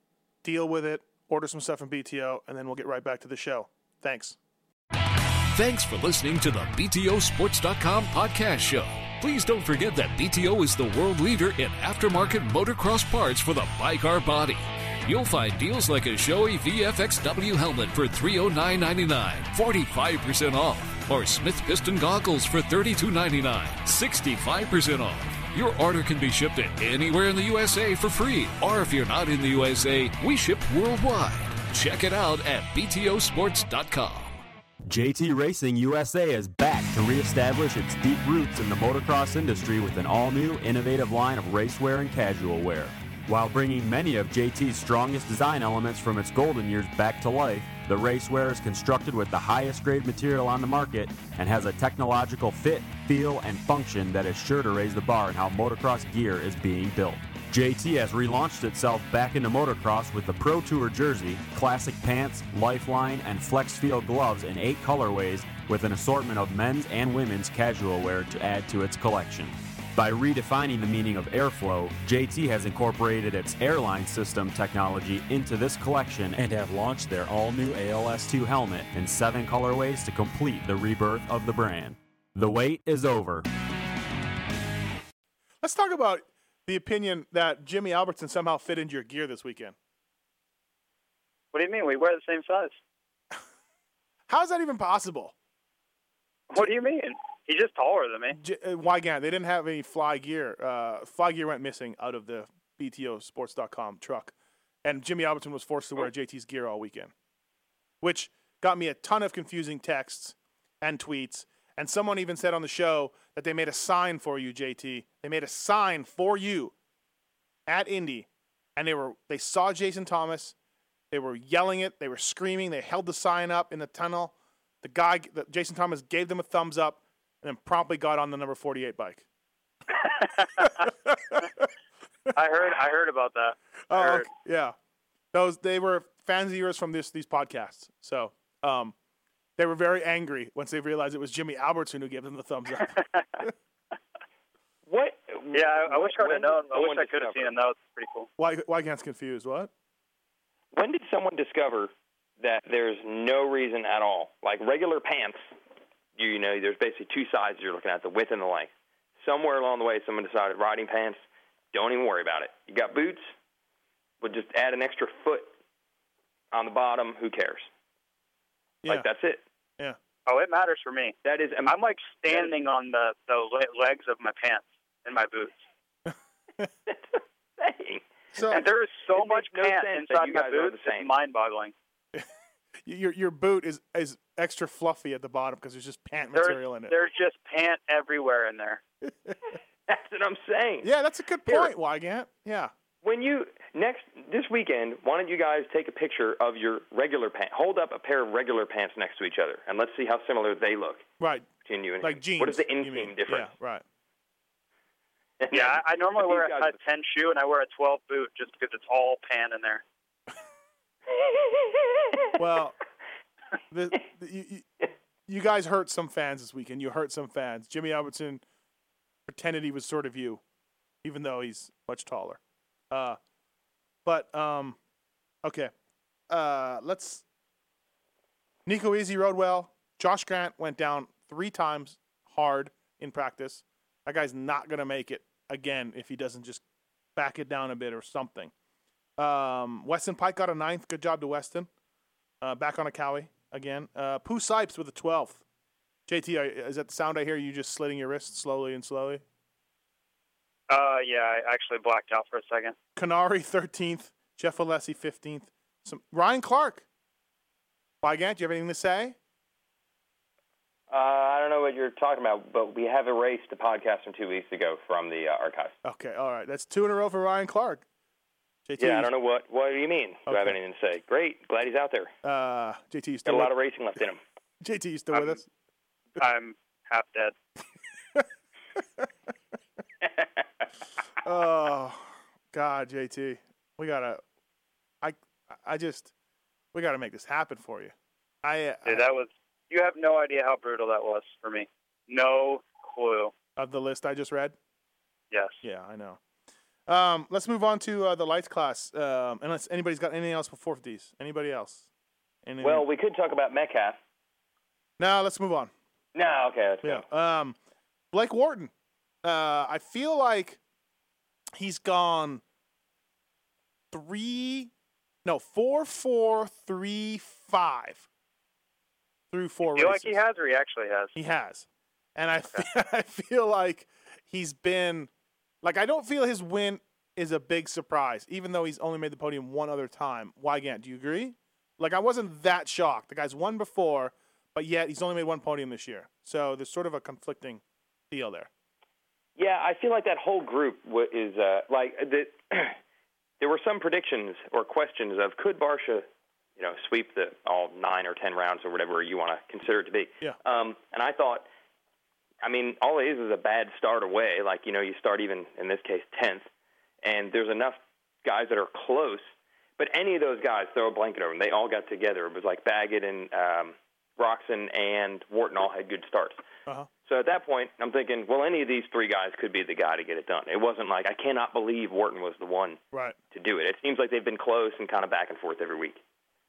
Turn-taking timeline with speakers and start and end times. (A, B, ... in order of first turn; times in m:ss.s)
0:00.4-0:04.4 A
0:05.5-0:34.4 B
0:34.9-1:23.4 C
1:25.6-1:29.8 A
1:31.5-1:32.8 D
1:34.3-1:35.3 A
1:36.5-1:38.4 D
1:38.4-1:47.1 A
1:48.0-1:56.7 A
1:57.7-2:00.5 A
2:01.1-2:09.2 A
2:10.1-2:10.7 D
2:10.6-2:11.7 A
2:12.3-2:14.3 D
2:13.9-2:14.7 A
2:15.3-2:18.9 A
2:19.6-2:23.5 A
2:24.9-2:27.5 E
2:25.5-2:28.3 D
2:28.4-2:29.7 A
2:30.7-2:35.4 E
2:36.2-2:41.2 E
2:41.7-2:43.2 E
2:44.2-2:45.5 E
2:46.5-2:47.7 E
2:48.9-2:49.4 E
2:50.3-2:55.6 D
2:51.2-2:51.8 E
2:56.1-2:56.7 A
2:56.9-2:58.0 E
2:58.3-2:58.6 A
2:58.5-3:01.7 D
2:59.1-3:01.1 E
3:02.8-3:06.9 A
3:06.3-3:08.8 D
3:09.0-3:09.4 A
3:09.9-3:10.9 E
3:10.8-3:12.7 A
3:11.4-3:11.7 E
3:13.0-3:21.1 E
3:21.2-3:21.5 A
3:21.6-3:23.5 E
3:22.0-3:23.8 A
3:25.4-3:26.7 E
3:25.5-3:29.8 D
3:32.4-3:32.8 A
3:33.7-3:34.7 A
3:35.3-3:38.4 A
3:39.3-3:40.4 A
3:41.0-3:42.4 A
3:42.9-3:43.2 A
3:44.0-3:44.8 A
3:45.4-3:45.7 A
3:46.3-3:47.2 A
3:48.6-3:56.6 A
3:57.2-3:58.5 A
3:59.2-4:01.7 A
4:02.4-4:05.4 A
4:06.1-4:09.2 A
4:10.7-4:12.7 D
4:13.0-4:16.8 A
4:18.0-4:19.2 A
4:20.9-4:25.8 E
4:25.8-4:27.8 A
4:28.7-4:29.1 A
4:28.8-4:32.1 E
4:30.3-4:30.6 A
4:32.2-4:33.5 A
4:33.2-4:34.2 E
4:34.6-4:35.5 A
4:36.2-4:37.3 D
4:38.8-4:39.1 A
4:41.2-4:44.2 A
4:45.0-4:46.1 A
4:46.7-4:49.1 A
4:48.8-4:53.3 D
4:53.6-4:54.6 A
4:55.3-4:55.6 D
4:55.6-4:56.2 A
4:56.9-5:01.8 A
5:02.4-5:02.8 A
5:02.6-5:04.0 E
5:05.0-5:05.7 A
5:06.1-5:07.0 E
5:06.8-5:07.6 A
5:08.1-5:08.7 A
5:09.2-5:10.6 A
5:11.6-5:12.4 A
5:13.9-5:14.7 A
5:15.2-5:18.0 A
5:19.3-5:20.2 A
5:19.6-5:21.2 D
5:21.2-5:25.1 A
5:25.6-5:38.5 A
5:39.4-5:42.8 E
5:43.4-5:46.0 E
5:46.6-5:51.4 E
5:52.4-5:56.5 E
5:57.0-6:06.4 E
6:07.0-6:12.8 E
6:13.3-6:16.0 E